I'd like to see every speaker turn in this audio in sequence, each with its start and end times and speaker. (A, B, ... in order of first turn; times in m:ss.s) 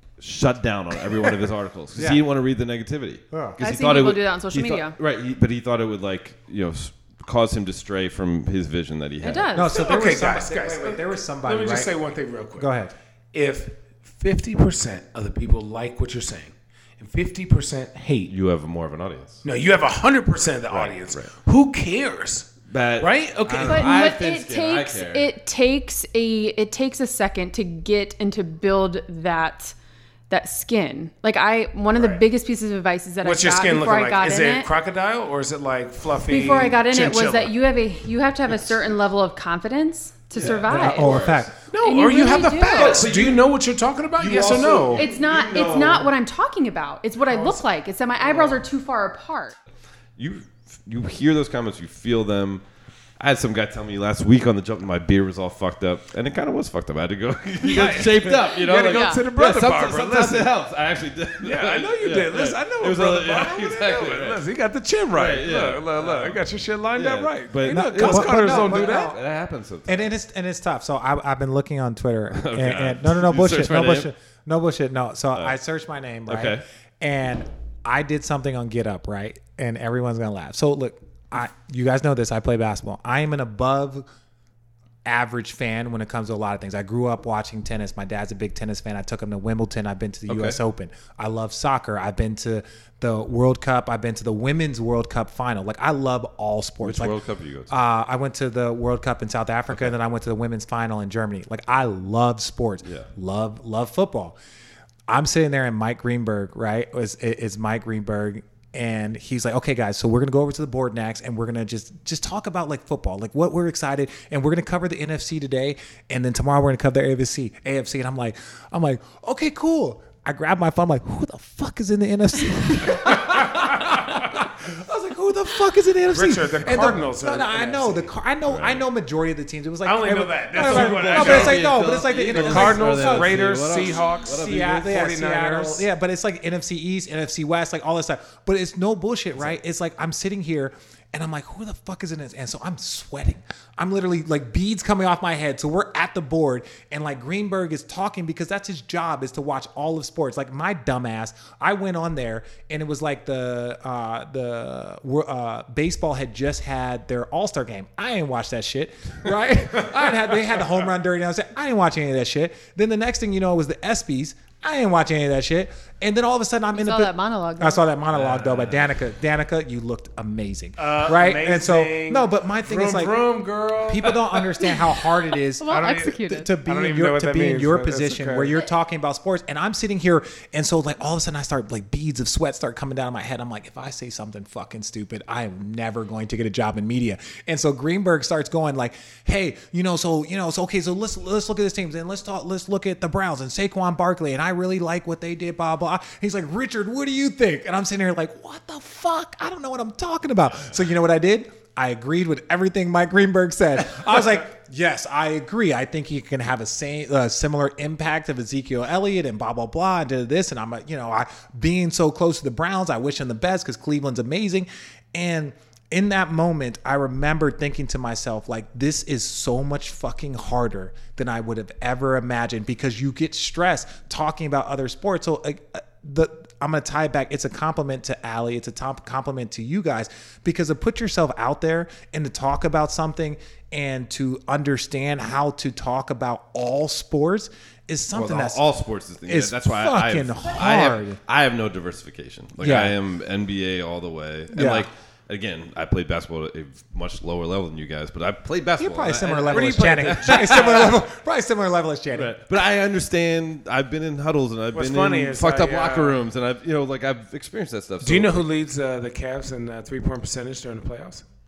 0:00.2-0:09.5 A
0:01.9-0:02.2 B
0:03.3-0:03.6 B
0:03.6-0:05.0 C
0:09.2-0:09.8 C
0:09.5-0:11.9 B
0:09.7-0:12.7 D
0:12.6-0:12.9 B
0:13.3-0:18.3 D
0:18.3-0:19.4 A
0:19.4-0:22.5 D
0:20.7-0:21.3 A
0:22.7-0:25.3 A
0:23.0-0:23.9 D
0:23.6-0:29.7 C
0:30.3-0:34.7 C
0:33.2-0:37.6 D
0:36.2-0:41.1 C
0:40.3-0:41.5 A
0:40.7-0:41.5 B
0:41.7-0:45.1 D
0:41.8-0:43.1 C
0:42.7-0:43.5 A
0:44.2-0:46.1 A
0:44.9-0:49.5 C
0:47.3-0:47.6 D
0:50.2-0:52.6 A
0:53.2-1:04.4 A
0:57.6-1:00.5 D
0:58.9-0:59.2 C
1:01.4-1:09.1 D
1:05.1-1:06.4 A
1:06.9-1:10.1 A
1:07.7-1:09.2 B
1:09.9-1:24.0 B
1:12.3-1:14.1 A
1:16.3-1:16.6 A
1:25.0-1:37.2 B
1:30.3-1:30.6 A
1:36.8-1:37.7 A
1:37.7-1:44.4 B
1:45.1-2:13.5 B
2:06.1-2:08.1 D
2:08.4-2:08.8 A
2:09.8-2:15.8 D
2:10.5-2:14.9 A
2:14.3-2:53.3 B
2:46.7-2:47.8 C
2:48.1-2:48.8 A
2:50.8-2:54.8 D
2:53.8-3:58.6 B
2:55.6-2:56.5 C
2:55.7-2:56.1 D
2:56.6-2:58.6 D
3:58.1-4:11.0 A
3:59.3-4:01.2 B
4:02.6-4:02.9 B
4:04.5-4:04.9 B
4:08.8-4:12.3 B
4:09.4-4:10.9 D
4:12.1-4:18.5 A
4:14.7-4:16.2 D
4:18.0-4:21.2 D